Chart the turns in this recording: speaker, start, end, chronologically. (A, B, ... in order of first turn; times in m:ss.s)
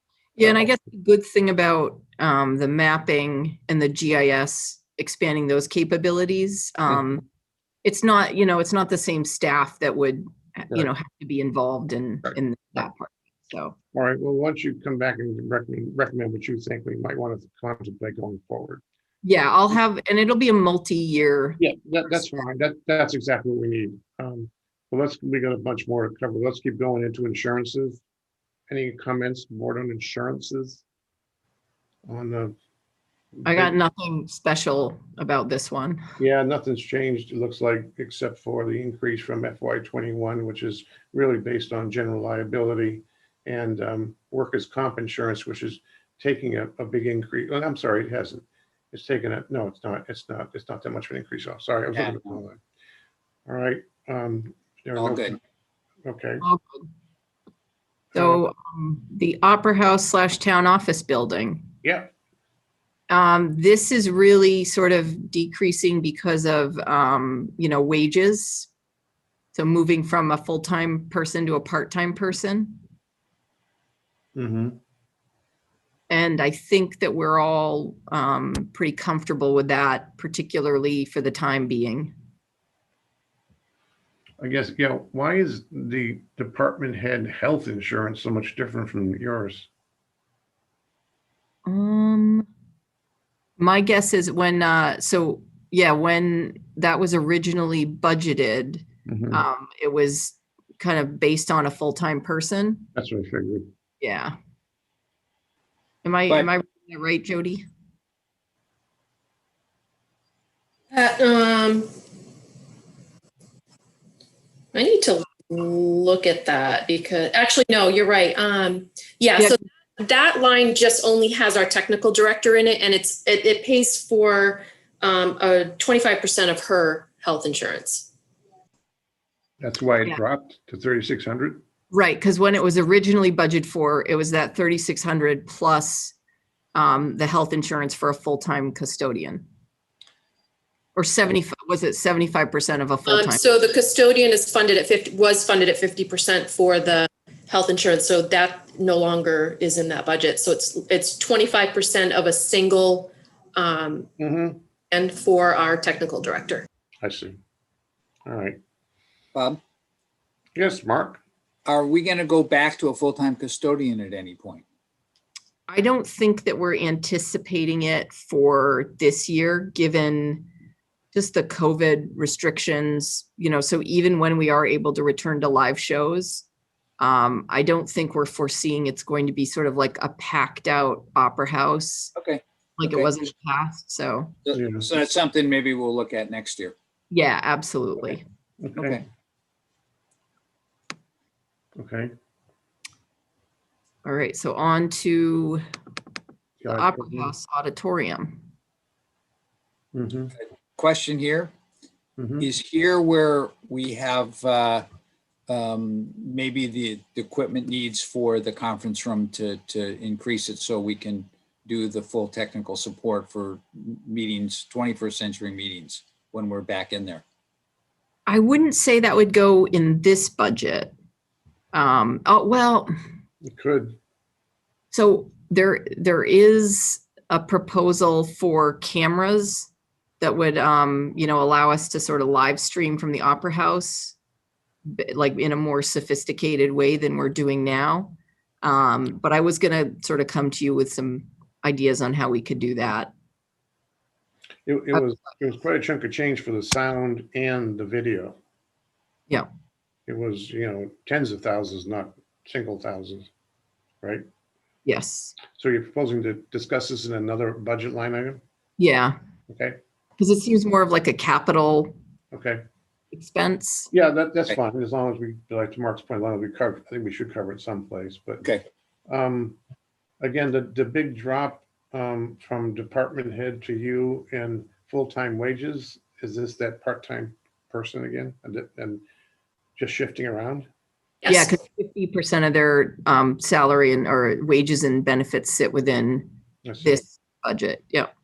0:00.4-0:07.2 A
0:00.4-0:00.7 B
0:07.8-0:13.8 A
0:13.9-0:18.8 B
0:19.2-0:22.4 A
0:21.6-0:28.0 B
0:28.7-0:30.8 B
0:32.1-0:32.6 B
0:33.4-0:33.8 B
0:33.4-0:36.0 A
0:36.2-0:52.6 B
0:52.0-0:52.3 C
0:53.5-0:55.4 B
0:55.0-0:55.4 C
0:56.0-0:56.4 B
0:56.4-0:56.9 A
0:58.1-0:58.4 B
0:58.2-1:01.7 A
1:01.8-1:02.1 B
1:03.1-1:08.7 A
1:09.5-1:12.8 A
1:14.4-1:14.8 B
1:16.1-1:22.1 A
1:24.4-1:29.7 B
1:31.7-1:32.5 A
1:33.6-1:42.9 A
1:39.1-1:39.4 B
1:43.0-1:43.7 B
1:44.0-1:44.3 A
1:46.0-1:47.6 A
1:50.9-1:51.9 D
1:54.7-2:08.1 D
2:09.6-2:11.6 B
2:11.9-2:16.1 A
2:16.8-2:19.4 A
2:21.0-2:23.4 A
2:23.1-2:34.1 D
2:34.2-2:34.6 B
2:34.9-2:36.6 D
2:37.0-2:37.4 B
2:38.3-2:38.6 B
2:40.6-2:41.2 B
2:41.7-2:44.6 C
2:45.7-2:50.5 A
2:51.1-2:56.5 A
2:57.0-3:02.1 A
3:02.2-3:03.1 C
3:02.8-3:04.4 A
3:04.4-3:06.7 C
3:04.5-3:04.9 B
3:07.1-3:08.2 A
3:08.6-3:09.0 B
3:08.8-3:09.0 C
3:11.8-3:12.1 B
3:14.0-3:15.6 A
3:16.6-3:17.3 B
3:16.7-3:18.4 A
3:19.9-3:20.4 B
3:20.4-3:21.5 C
3:22.2-3:22.5 B
3:22.4-3:24.9 C
3:25.5-3:37.2 C
3:38.3-3:40.9 A
3:41.7-3:42.9 A
3:43.4-3:44.0 B
3:44.9-3:49.7 A
3:50.2-3:54.2 A
3:54.9-4:03.1 A
4:04.7-4:08.4 B
4:10.1-4:13.3 B
4:14.9-4:15.4 A
4:15.5-4:18.4 B
4:18.8-4:19.2 A
4:19.5-4:19.8 B
4:20.2-4:21.9 A
4:22.3-4:22.6 B
4:23.1-4:23.9 A
4:23.9-4:28.5 B
4:29.1-4:29.6 B
4:30.2-4:39.0 B
4:39.8-4:40.7 B
4:41.2-4:41.6 D
4:41.3-4:46.3 A
4:46.6-4:47.0 B
4:46.8-4:48.1 A